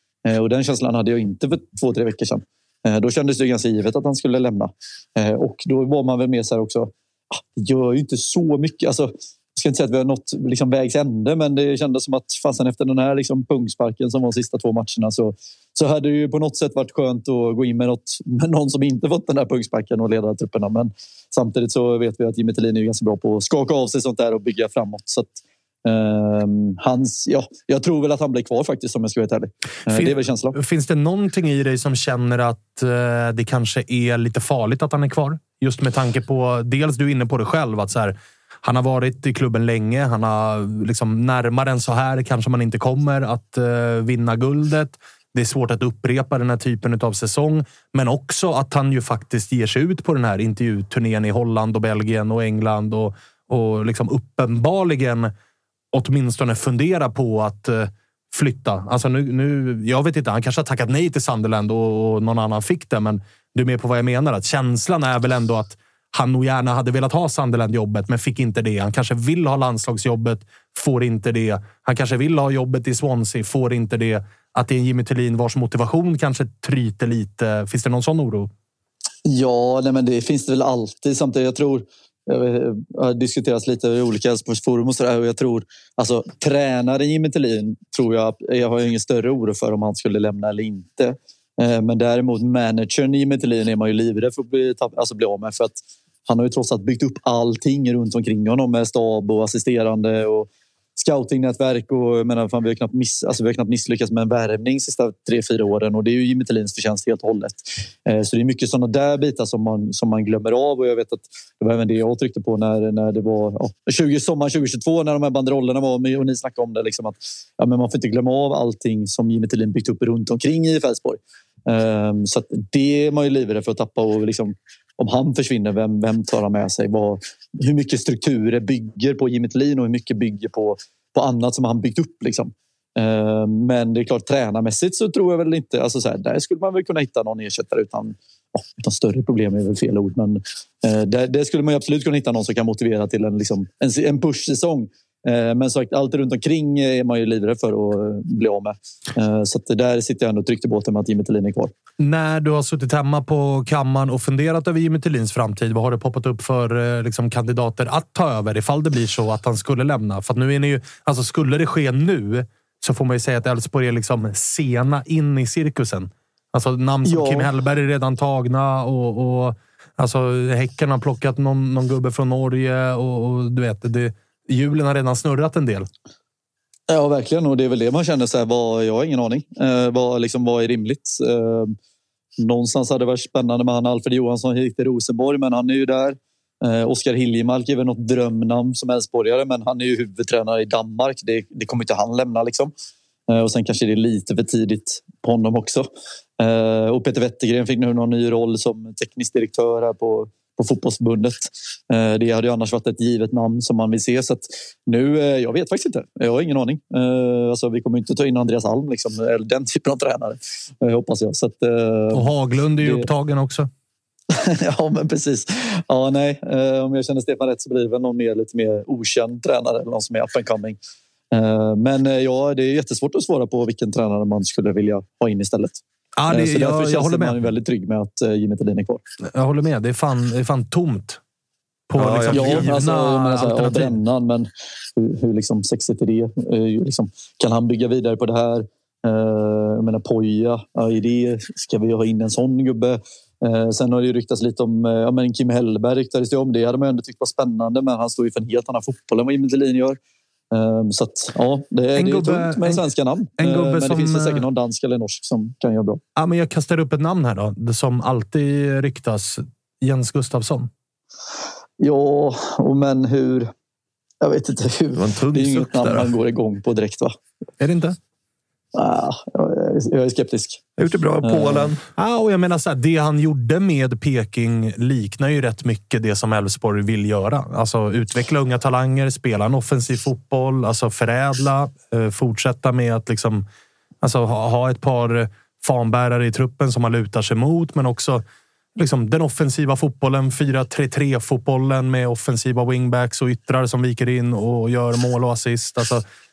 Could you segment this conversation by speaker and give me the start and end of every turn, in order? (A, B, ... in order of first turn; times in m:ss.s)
0:00.3-0:30.6 A
0:29.9-0:55.3 B
0:55.9-1:18.5 B
1:19.3-2:31.7 A
2:32.0-2:55.9 B
2:47.1-2:47.5 A
2:56.9-3:01.8 A
3:02.4-3:12.7 A
3:13.3-3:15.9 A
3:16.4-3:33.1 A
3:32.1-3:33.7 B
3:34.3-3:40.8 A
3:41.3-3:45.8 A
3:46.2-3:47.4 B
3:46.3-3:49.0 A
3:49.3-3:51.2 B
3:51.9-3:54.0 B
3:52.0-3:52.7 C
3:52.3-4:10.0 A
4:10.5-4:16.0 A
4:12.0-4:12.8 B
4:13.4-4:14.4 B
4:16.2-4:20.7 B
4:21.8-4:23.5 A
4:24.2-4:27.2 A
4:25.0-4:26.1 C
4:27.6-4:28.0 B
4:28.8-4:30.6 A
4:30.8-4:31.8 C
4:31.2-4:31.7 A
4:32.0-4:43.4 B
4:44.0-4:48.2 B
4:48.8-4:56.0 B